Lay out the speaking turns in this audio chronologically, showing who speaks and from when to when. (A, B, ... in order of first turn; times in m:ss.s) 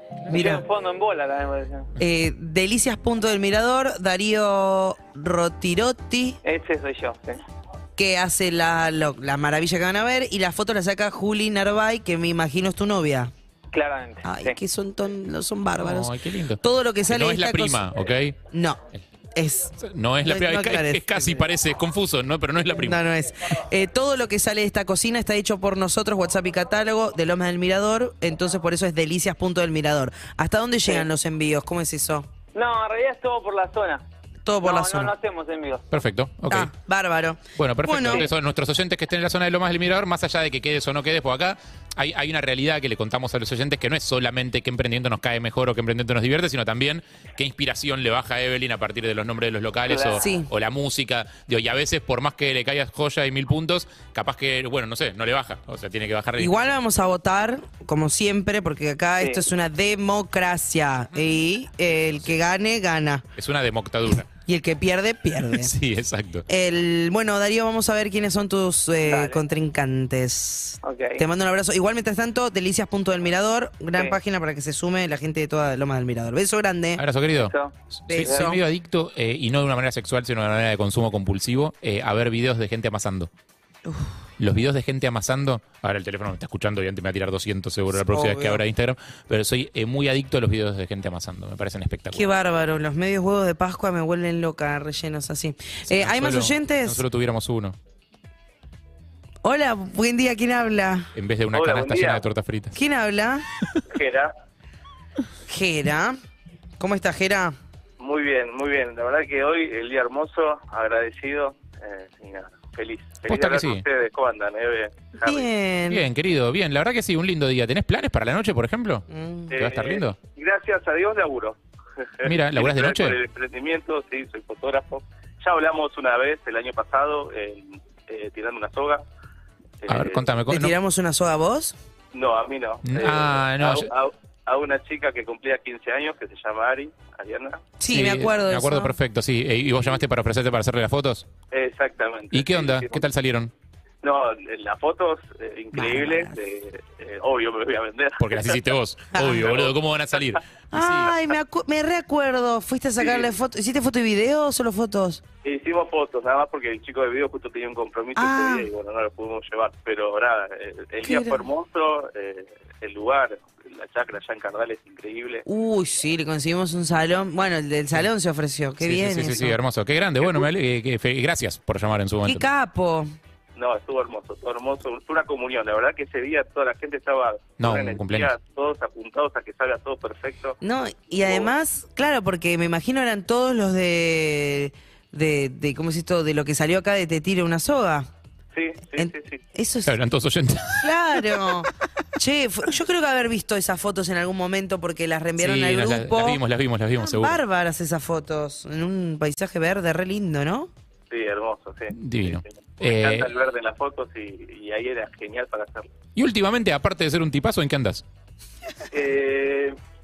0:00.3-0:00.6 A
0:00.3-0:01.9 B
0:02.0-0:06.4 A
0:06.4-0:07.4 B
0:08.0-0:13.3 A
0:13.7-0:14.6 B
0:14.2-0:17.8 A
0:15.8-0:18.4 C
0:18.5-0:18.8 A
0:19.3-0:21.4 A
0:19.8-0:23.0 C
0:22.7-0:32.3 A
0:32.5-0:34.0 B
0:34.4-0:35.1 A
0:34.6-0:35.8 B
0:35.9-0:36.7 C
0:36.5-0:38.3 A
0:37.6-0:56.7 C
0:49.9-0:50.2 D
0:50.1-0:50.5 A
0:56.4-1:03.2 A
1:03.4-1:04.3 C
1:04.4-1:05.7 A
1:05.6-1:06.4 C
1:06.5-1:17.0 A
1:09.0-1:09.4 B
1:10.8-1:11.2 B
1:17.0-1:23.3 C
1:17.4-1:17.7 B
1:18.1-1:18.6 A
1:23.8-1:24.1 A
1:24.4-1:32.3 C
1:27.9-1:28.6 A
1:32.1-1:37.0 A
1:35.9-1:37.8 C
1:39.4-1:41.1 A
1:41.1-1:42.8 C
1:41.5-1:42.3 D
1:42.7-1:43.5 A
1:43.9-1:44.3 D
1:45.5-1:46.2 A
1:46.8-1:47.6 A
1:48.0-1:55.5 D
1:53.3-1:53.8 C
1:55.2-1:56.0 A
1:55.9-1:59.0 C
1:59.1-1:59.6 A
1:59.5-2:01.6 D
1:59.6-2:00.2 C
2:02.2-2:09.0 D
2:02.2-2:03.2 C
2:09.8-2:10.3 D
2:09.9-2:10.7 C
2:10.5-2:11.7 A
2:12.1-2:17.7 D
2:12.8-2:13.9 C
2:17.8-2:19.0 A
2:17.9-2:21.2 C
2:21.5-2:23.0 D
2:22.3-2:23.5 C
2:24.0-2:28.7 D
2:25.7-2:26.4 A
2:28.2-2:31.1 C
2:29.1-2:29.5 A
2:29.3-2:30.4 D
2:30.7-2:35.2 A
2:33.0-2:33.3 D
2:35.4-2:45.4 D
2:38.2-2:38.7 A
2:41.0-2:41.4 A
2:45.4-2:49.6 A
2:48.8-2:52.5 C
2:50.2-2:50.5 D
2:52.2-2:53.1 A
2:53.6-3:00.6 D
2:57.6-2:58.3 C
3:00.6-3:08.1 A
3:01.2-3:01.5 D
3:08.5-3:09.4 D
3:09.0-3:10.0 A
3:09.8-3:11.5 C
3:10.8-3:16.4 A
3:15.4-3:17.4 C
3:17.0-3:20.7 A
3:21.1-3:25.9 D
3:21.9-3:23.3 C
3:26.2-3:28.0 C
3:28.9-3:29.8 D